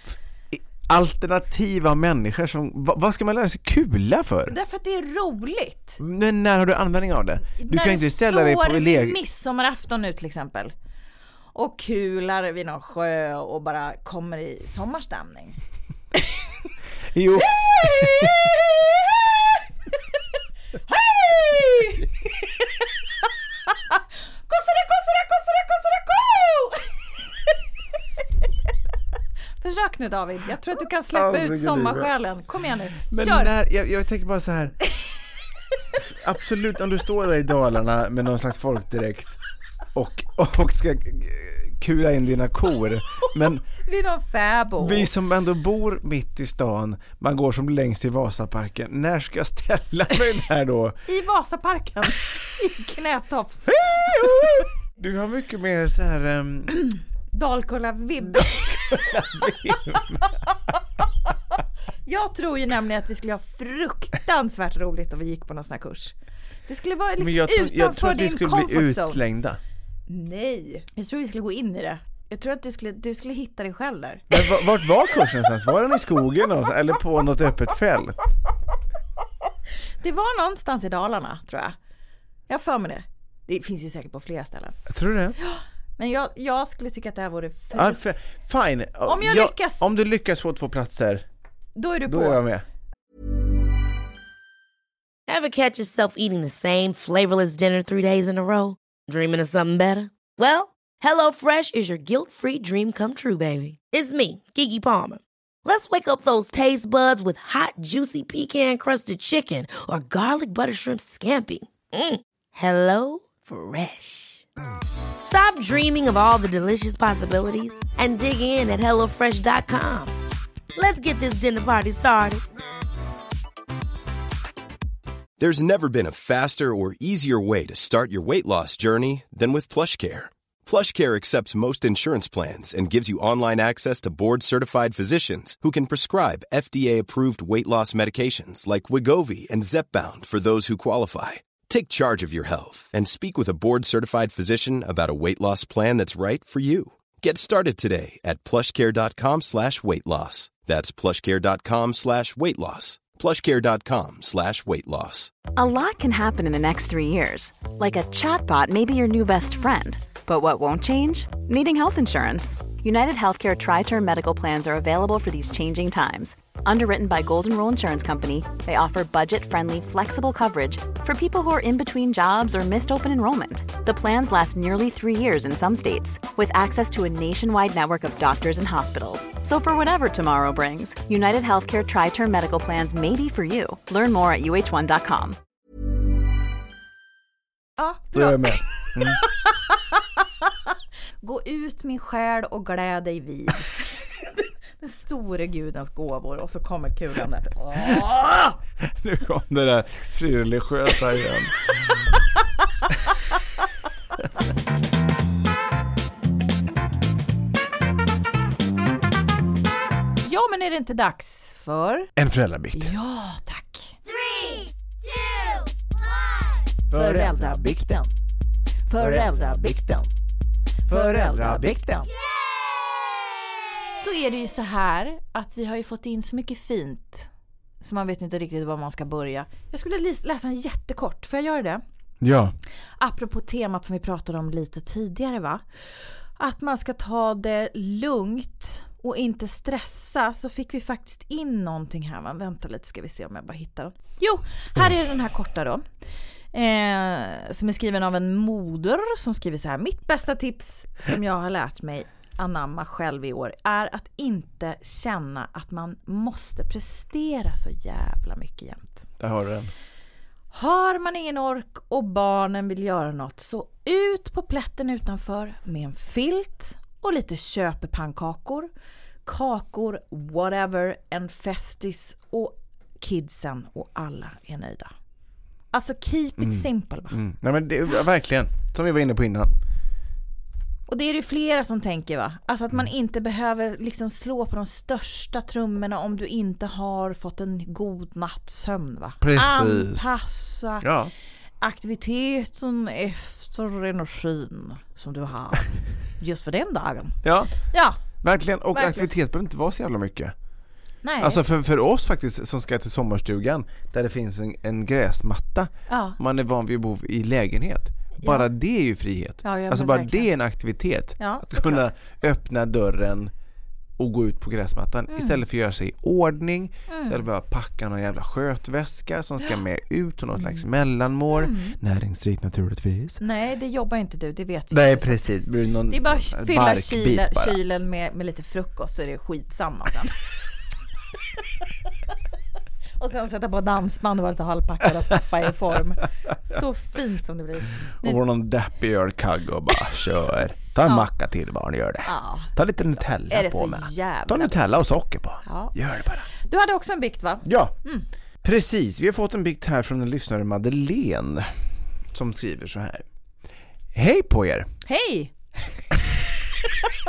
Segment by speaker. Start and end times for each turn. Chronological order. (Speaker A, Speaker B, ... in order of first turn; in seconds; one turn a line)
Speaker A: 0.5-4.6
Speaker B: 4.5-6.0
Speaker A: 6.0-9.2
Speaker B: 7.5-10.7
Speaker B: 11.6-15.6
Speaker A: 17.1-18.5
Speaker B: 17.4-19.5
Speaker B: 20.9-22.5
Speaker B: 23.9-27.5
Speaker B: 29.6-33.5
Speaker A: 31.1-32.1
Speaker A: 33.1-34.8
Speaker A: 36.0-39.4
Speaker A: 39.9-43.7
Speaker B: 43.8-45.1
Speaker A: 44.8-51.0
Speaker B: 51.1-54.6
Speaker A: 53.8-56.7
Speaker B: 56.9-59.3
Speaker A: 58.4-60.3
Speaker B: 62.1-66.2
Speaker B: 66.7-69.2
Speaker A: 67.2-69.6
Speaker B: 70.1-74.4
Speaker A: 74.3-78.3
Speaker B: 80.0-81.8
Speaker B: 82.5-84.8
Speaker A: 84.9-85.4
Speaker B: 85.4-88.0
Speaker A: 87.7-91.3
Speaker B: 89.0-89.9
Speaker B: 91.8-92.4
Speaker A: 92.1-92.7
Speaker C: 95.3-114.5
Speaker C: 115.2-120.1
Speaker C: 120.8-122.4
Speaker D: 125.4-155.4
Speaker E: 155.5-185.4
Speaker B: 187.8-190.5
Speaker A: 188.1-189.2
Speaker B: 191.2-198.6
Speaker A: 198.8-202.0
Speaker B: 210.2-212.1
Speaker A: 212.2-212.9
Speaker B: 212.7-214.0
Speaker A: 216.9-218.0
Speaker B: 216.9-218.1
Speaker B: 218.9-220.1
Speaker A: 219.0-219.9
Speaker B: 220.9-222.1
Speaker A: 220.9-222.0
Speaker B: 224.0-227.3
Speaker B: 227.8-231.8
Speaker A: 232.2-232.5
Speaker B: 233.0-245.8
Speaker B: 246.5-259.1
Speaker A: 259.2-259.7
Speaker B: 260.5-268.7
Speaker B: 269.3-274.9
Speaker B: 275.7-277.2
Speaker A: 276.4-279.5
Speaker B: 280.9-290.9
Speaker A: 289.2-290.1
Speaker A: 290.8-291.1
Speaker B: 291.6-298.0
Speaker A: 297.2-297.6
Speaker A: 298.1-300.3
Speaker B: 298.7-299.1
Speaker B: 301.0-301.4
Speaker A: 301.2-313.3
Speaker B: 305.9-306.2
Speaker B: 308.2-308.5
Speaker B: 309.4-310.3
Speaker B: 311.2-311.9
Speaker A: 314.0-323.2
Speaker B: 315.1-315.4
Speaker B: 316.9-317.2
Speaker B: 320.4-320.6
Speaker B: 321.3-321.8
Speaker B: 323.2-325.3
Speaker A: 324.7-327.6
Speaker B: 325.9-330.2
Speaker B: 333.0-338.2
Speaker A: 338.0-346.3
Speaker B: 342.1-342.5
Speaker B: 343.3-344.6
Speaker B: 345.4-345.8
Speaker B: 346.3-348.1
Speaker A: 347.4-347.8
Speaker A: 348.4-353.1
Speaker A: 353.9-354.7
Speaker B: 354.9-355.3
Speaker B: 356.6-356.9